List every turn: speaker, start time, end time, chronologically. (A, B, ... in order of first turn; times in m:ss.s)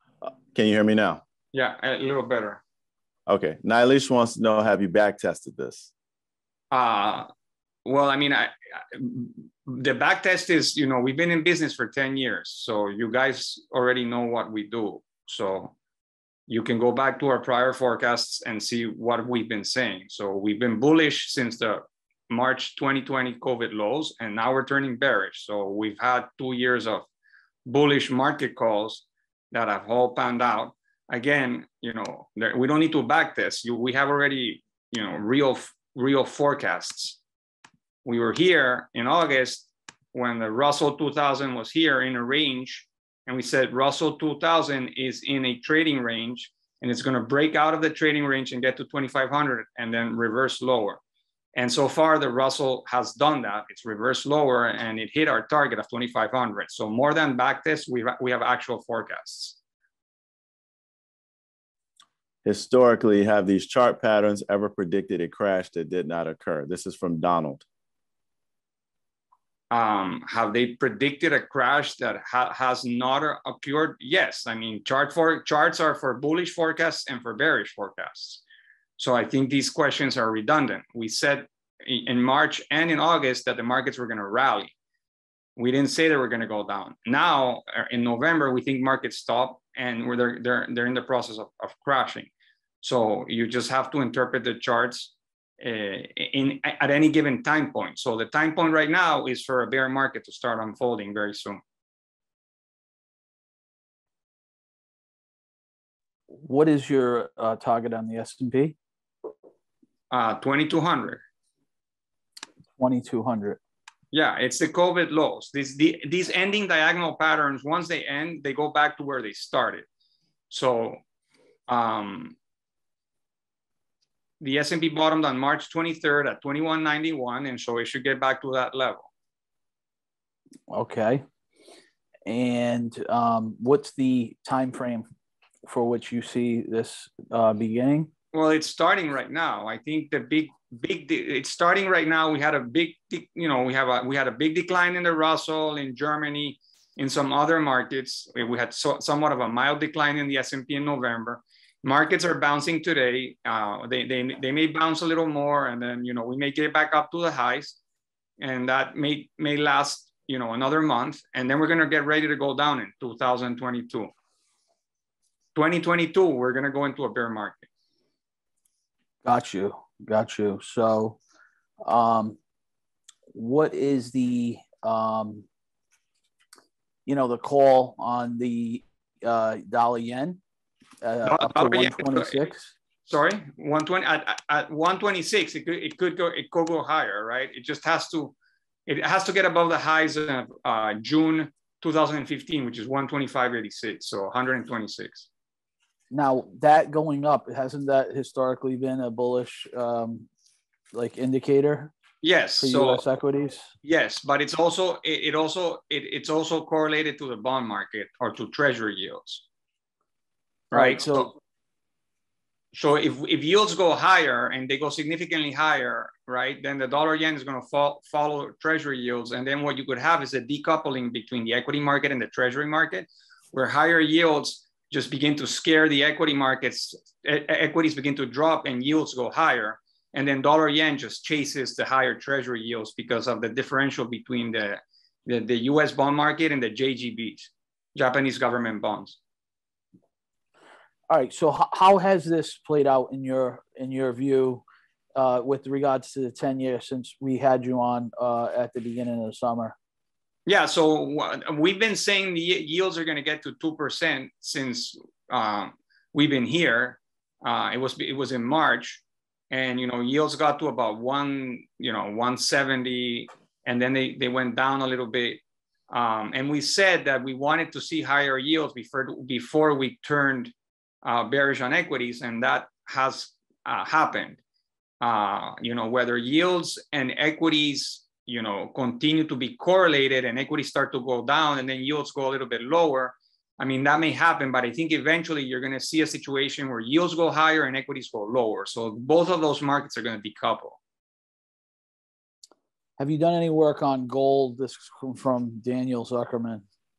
0:00.2-0:01.2 A
0:01.5-0:02.6 B
0:03.3-0:05.9 A
0:06.7-0:07.3 B
0:07.8-0:15.7 B
0:16.5-0:27.1 B
0:27.6-0:37.2 B
0:38.0-0:51.0 B
0:51.5-0:59.6 B
1:02.4-1:07.6 A
1:09.7-1:18.4 B
1:19.0-1:24.7 B
1:25.6-1:32.3 B
1:32.8-1:41.6 B
1:46.4-1:48.8 C
1:50.1-1:51.2 B
1:52.8-1:53.6 C
1:54.1-1:59.8 B
2:00.5-2:01.0 B
2:01.7-2:02.4 B
2:04.4-2:09.1 B
2:10.7-2:11.2 C
2:12.2-2:15.1 C
2:15.6-2:18.1 C
2:18.3-2:37.8 B
2:38.4-2:44.1 B
2:45.5-2:47.7 B
2:49.2-2:51.2 C
2:51.8-2:52.4 C
2:53.3-2:55.4 C
2:57.0-3:00.4 C
3:01.0-3:02.7 C
3:01.2-3:02.4 B
3:03.0-3:08.3 B
3:08.9-3:15.3 B
3:16.1-3:20.3 C
3:20.9-3:21.9 C
3:22.2-3:23.0 B
3:22.6-3:23.7 C
3:23.8-3:29.4 B
3:30.7-3:31.3 B
3:30.7-3:31.3 C
3:32.7-3:59.2 B
4:01.1-4:04.6 C
4:05.1-4:09.7 C
4:10.4-4:34.4 B
4:35.0-4:50.8 B
4:53.0-4:56.6 C